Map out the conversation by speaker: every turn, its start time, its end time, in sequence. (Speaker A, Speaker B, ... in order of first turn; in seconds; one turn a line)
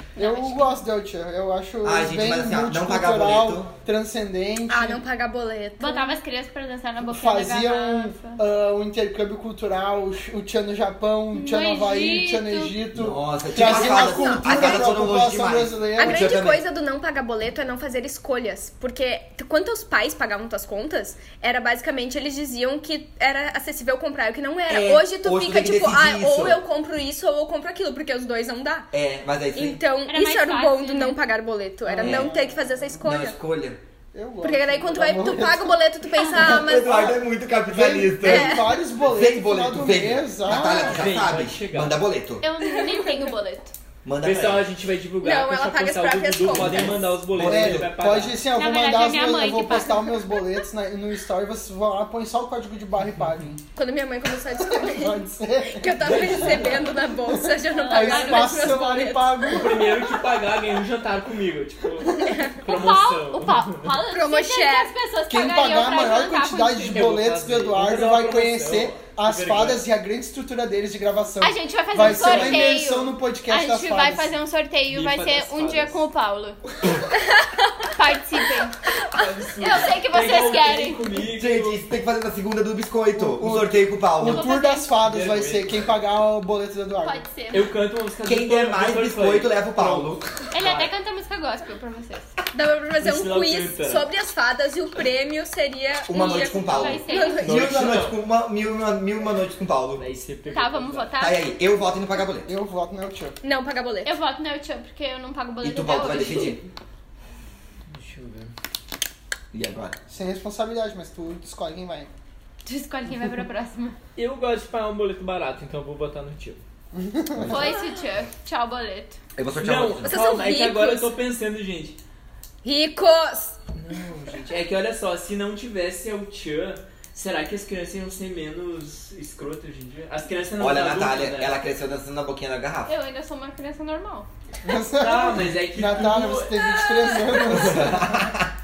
Speaker A: 0.2-0.7
Speaker B: 0.2-5.0
Speaker C: 1.8-3.7
Speaker D: 4.7-6.2
Speaker A: 5.8-8.4
Speaker B: 7.0-16.3
Speaker A: 11.3-12.8
Speaker C: 12.9-16.6
Speaker D: 13.5-14.9
Speaker D: 16.0-28.9
Speaker C: 24.7-26.6
Speaker C: 28.9-29.8
Speaker D: 29.5-33.4
Speaker A: 30.1-31.2
Speaker B: 31.9-32.8
Speaker C: 32.0-32.3
Speaker C: 33.0-33.8
Speaker B: 34.1-35.8
Speaker D: 34.4-37.2
Speaker C: 36.3-42.4
Speaker B: 37.7-41.0
Speaker D: 38.2-38.8
Speaker E: 40.8-42.0
Speaker A: 42.4-43.7
Speaker D: 42.6-43.2
Speaker C: 44.0-44.7
Speaker E: 44.2-48.4
Speaker D: 45.2-47.0
Speaker C: 46.4-47.9
Speaker B: 47.4-53.6
Speaker A: 48.5-50.2
Speaker D: 53.7-59.7
Speaker B: 54.6-60.0
Speaker E: 56.0-56.9
Speaker A: 57.7-58.8
Speaker E: 59.5-64.0
Speaker B: 62.0-62.5
Speaker D: 62.2-62.6
Speaker A: 62.6-67.1
Speaker D: 64.1-64.9
Speaker B: 65.3-74.3
Speaker E: 66.8-69.8
Speaker A: 71.4-76.6
Speaker E: 71.9-72.7
Speaker E: 74.9-76.0
Speaker D: 77.2-77.7
Speaker A: 77.9-78.8
Speaker E: 79.1-81.8
Speaker A: 79.6-81.0
Speaker C: 81.3-84.5
Speaker B: 83.1-87.2
Speaker A: 84.2-84.9
Speaker E: 85.0-85.9
Speaker A: 87.0-87.7
Speaker E: 87.5-90.9
Speaker C: 88.2-90.3
Speaker A: 90.5-92.3
Speaker D: 92.5-97.8
Speaker E: 93.0-94.0
Speaker C: 96.1-100.0
Speaker A: 96.1-97.6
Speaker E: 97.4-98.2
Speaker E: 100.0-101.1
Speaker A: 100.5-101.5
Speaker C: 101.2-102.5
Speaker B: 102.5-103.4
Speaker D: 103.4-104.1
Speaker A: 104.0-106.6
Speaker C: 105.6-106.6
Speaker E: 107.9-108.5
Speaker C: 109.5-110.0
Speaker B: 110.1-112.1
Speaker A: 112.6-114.0
Speaker E: 114.2-116.6
Speaker B: 116.9-117.7
Speaker C: 117.4-117.6
Speaker A: 117.5-119.2
Speaker C: 119.3-120.1
Speaker E: 119.5-122.0
Speaker D: 120.0-121.1
Speaker D: 122.6-123.6
Speaker E: 123.7-131.6
Speaker C: 130.6-132.9
Speaker A: 132.8-134.3
Speaker B: 134.6-138.3
Speaker E: 134.9-136.8
Speaker A: 137.4-137.7
Speaker C: 137.5-138.5